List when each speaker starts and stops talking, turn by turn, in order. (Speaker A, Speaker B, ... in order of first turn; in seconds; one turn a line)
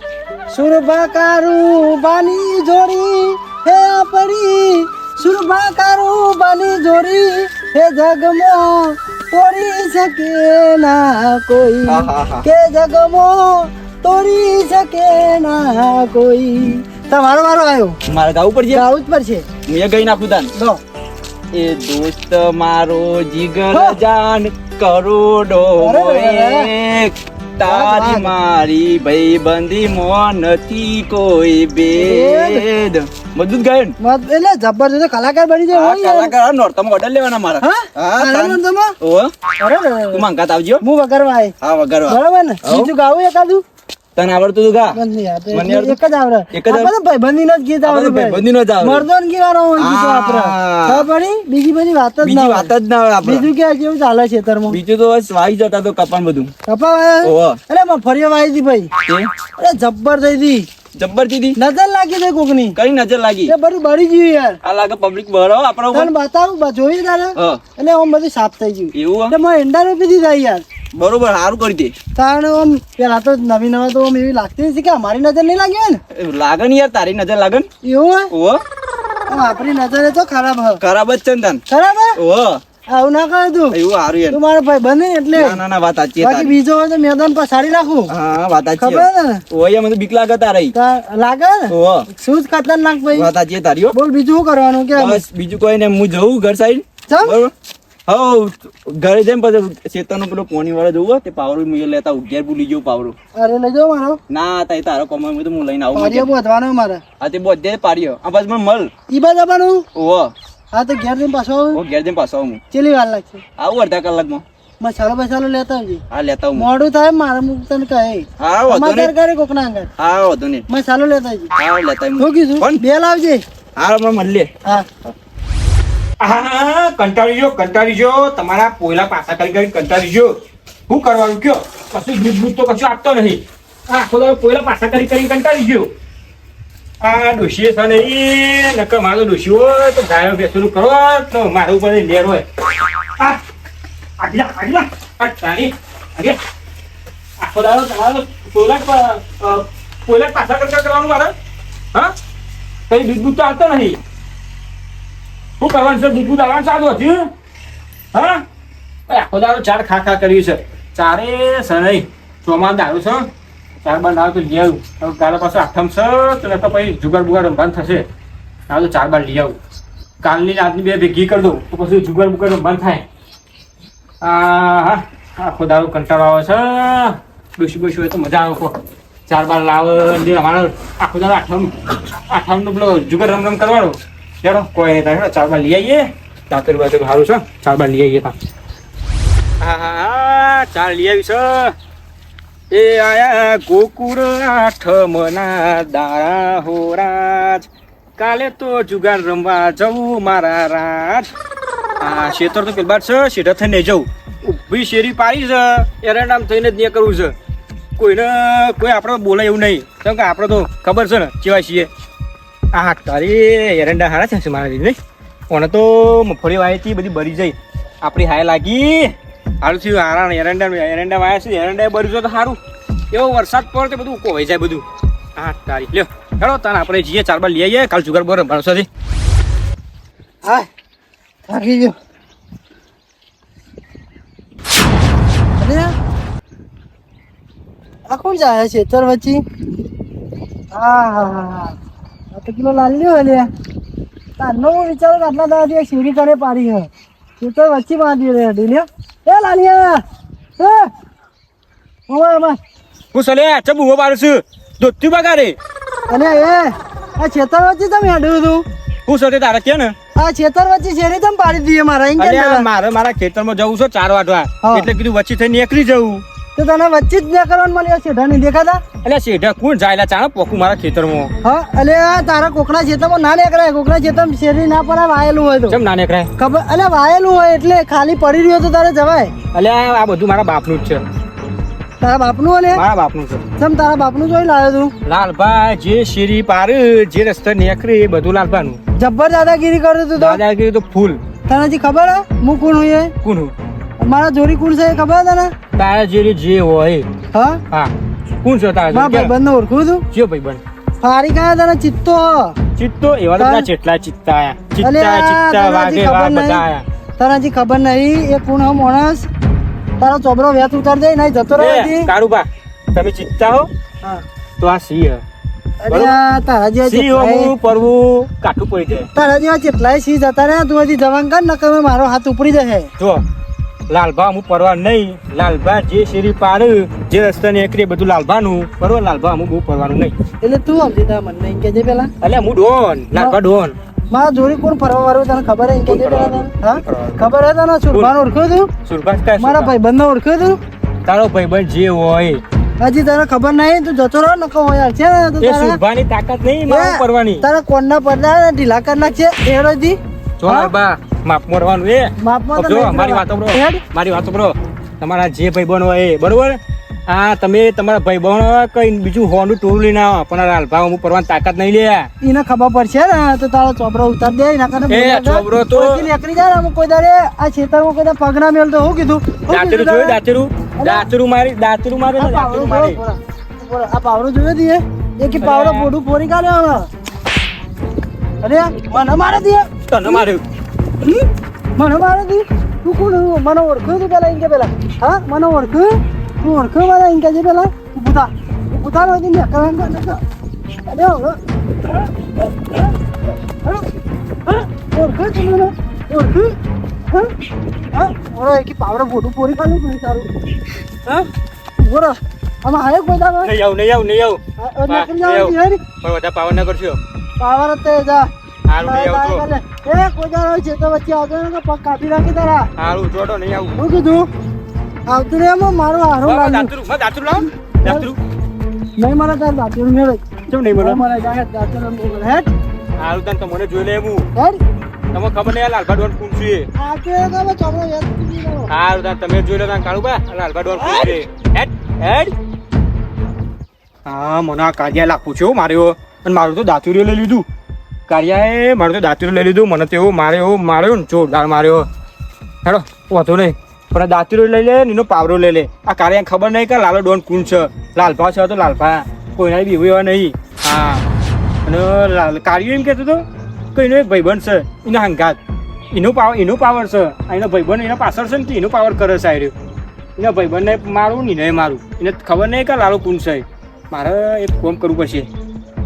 Speaker A: 0.5-18.0
Speaker B: 11.9-12.5
Speaker B: 18.1-18.9
Speaker A: 18.7-19.5
Speaker B: 19.7-20.5
Speaker B: 21.5-34.0
Speaker A: 23.7-24.0
Speaker A: 25.8-26.7
Speaker A: 27.6-28.3
Speaker A: 31.9-32.6
Speaker A: 34.0-36.3
Speaker B: 35.7-39.3
Speaker A: 37.6-39.0
Speaker A: 39.6-40.2
Speaker B: 40.1-40.8
Speaker A: 40.8-41.5
Speaker B: 41.6-42.9
Speaker A: 42.1-43.6
Speaker B: 44.2-45.0
Speaker A: 44.9-52.7
Speaker B: 45.5-46.0
Speaker B: 46.5-46.9
Speaker B: 47.8-49.1
Speaker B: 49.8-51.1
Speaker B: 52.2-53.5
Speaker A: 53.2-54.8
Speaker B: 54.7-56.5
Speaker A: 56.7-58.9
Speaker B: 57.2-57.6
Speaker B: 59.1-59.3
Speaker A: 59.6-60.7
Speaker B: 61.0-61.6
Speaker A: 61.6-62.8
Speaker B: 62.8-63.5
Speaker A: 63.5-64.6
Speaker B: 64.6-66.1
Speaker A: 65.9-70.6
Speaker B: 67.4-67.6
Speaker B: 68.9-69.3
Speaker B: 71.0-72.0
Speaker A: 72.2-76.0
Speaker B: 76.1-77.7
Speaker A: 77.8-78.3
Speaker B: 78.3-78.6
Speaker A: 79.3-80.8
Speaker B: 80.8-81.6
Speaker A: 81.7-82.2
Speaker B: 82.2-82.6
Speaker A: 82.9-83.8
Speaker B: 83.7-84.4
Speaker A: 84.3-85.6
Speaker B: 85.3-86.6
Speaker A: 86.2-88.1
Speaker B: 88.1-90.8
Speaker A: 88.8-89.4
Speaker A: 90.8-93.3
Speaker B: 91.7-92.1
Speaker B: 93.1-94.0
Speaker A: 93.9-95.2
Speaker B: 95.0-97.5
Speaker A: 97.1-97.4
Speaker B: 98.1-103.2
Speaker A: 103.3-104.2
Speaker B: 104.3-106.3
Speaker A: 105.9-107.0
Speaker B: 107.2-108.9
Speaker A: 109.1-109.8
Speaker B: 110.0-110.3
Speaker A: 110.7-111.8
Speaker B: 111.7-112.6
Speaker A: 112.7-113.4
Speaker B: 113.6-114.4
Speaker A: 114.8-116.0
Speaker B: 116.1-116.7
Speaker A: 116.6-119.9
Speaker B: 118.4-119.1
Speaker B: 120.0-120.7
Speaker A: 120.7-121.5
Speaker B: 121.5-122.8
Speaker A: 122.2-123.4
Speaker B: 123.8-124.5
Speaker C: 126.2-130.3
Speaker C: 130.9-135.9
Speaker C: 137.0-142.4
Speaker C: 144.2-146.4
Speaker C: 147.4-151.3
Speaker C: 152.9-154.0
Speaker C: 155.6-157.3
Speaker C: 158.1-158.4
Speaker C: 159.1-163.3
Speaker C: 163.8-168.1
Speaker C: 168.7-169.6
Speaker C: 170.2-173.0
Speaker C: 174.2-178.8
Speaker C: 179.3-181.7
Speaker C: 182.3-188.3
Speaker C: 189.6-191.7
Speaker C: 192.7-201.3
Speaker C: 202.0-207.3
Speaker C: 208.0-211.9
Speaker C: 212.7-215.0
Speaker C: 215.5-222.6
Speaker C: 223.1-224.8
Speaker C: 225.4-228.9
Speaker A: 231.5-231.9
Speaker A: 235.6-235.9
Speaker A: 238.1-239.4
Speaker A: 240.7-241.8
Speaker A: 242.3-243.5
Speaker A: 244.4-246.9
Speaker A: 247.4-250.0
Speaker A: 250.6-250.9
Speaker A: 252.1-252.6
Speaker C: 253.1-255.6
Speaker A: 256.1-258.6
Speaker C: 259.1-259.9
Speaker A: 260.2-262.6
Speaker C: 262.2-266.2
Speaker A: 266.6-268.8
Speaker C: 269.0-271.3
Speaker A: 271.4-275.8
Speaker C: 275.7-276.3
Speaker A: 276.4-279.3
Speaker C: 279.5-281.0
Speaker A: 282.0-282.8
Speaker C: 282.7-283.4
Speaker A: 283.6-284.9
Speaker C: 285.1-288.8
Speaker A: 289.0-290.4
Speaker C: 290.2-291.2
Speaker A: 291.5-293.1
Speaker C: 293.2-293.5
Speaker A: 294.0-295.5
Speaker C: 295.8-297.1
Speaker A: 297.3-297.6
Speaker C: 297.7-299.3
Speaker A: 298.9-300.1
Speaker C: 300.1-300.6
Speaker A: 301.0-302.6
Speaker C: 302.8-306.8
Speaker A: 303.4-303.7
Speaker A: 304.8-306.6
Speaker A: 307.2-309.3
Speaker A: 310.0-312.1
Speaker C: 311.6-313.7
Speaker C: 314.6-315.2
Speaker A: 315.8-317.5
Speaker C: 315.9-316.2
Speaker C: 316.8-319.1
Speaker A: 319.1-322.9
Speaker C: 323.9-330.1
Speaker A: 330.4-332.1
Speaker C: 332.2-333.8
Speaker A: 334.1-338.7
Speaker C: 335.9-337.2
Speaker C: 338.9-339.7
Speaker A: 339.4-340.6
Speaker C: 341.1-342.4
Speaker A: 342.8-345.8
Speaker C: 345.4-347.4
Speaker A: 346.7-350.7
Speaker C: 350.4-362.1
Speaker A: 352.2-353.8
Speaker A: 362.2-370.2
Speaker C: 364.9-366.1
Speaker C: 369.5-373.0
Speaker A: 370.8-371.1
Speaker A: 372.2-376.9
Speaker C: 375.4-375.9
Speaker A: 378.4-380.2
Speaker C: 379.9-380.4
Speaker A: 381.8-390.2
Speaker A: 390.9-392.9
Speaker A: 394.5-396.6
Speaker A: 397.9-400.3
Speaker A: 401.8-403.5
Speaker C: 403.4-407.0
Speaker A: 404.6-405.8
Speaker A: 407.4-408.3
Speaker C: 408.7-409.4
Speaker A: 408.8-412.7
Speaker C: 412.8-413.9
Speaker A: 413.8-414.3
Speaker A: 415.1-416.7
Speaker C: 416.2-418.2
Speaker A: 419.0-422.5
Speaker C: 420.5-421.1
Speaker C: 423.0-424.3
Speaker C: 425.1-426.7
Speaker A: 426.8-428.7
Speaker C: 428.7-432.3
Speaker A: 430.8-431.2
Speaker C: 434.1-437.5
Speaker C: 438.1-441.9
Speaker C: 442.6-451.1
Speaker C: 451.7-453.2
Speaker C: 453.8-455.4
Speaker C: 455.9-459.5
Speaker C: 460.2-465.3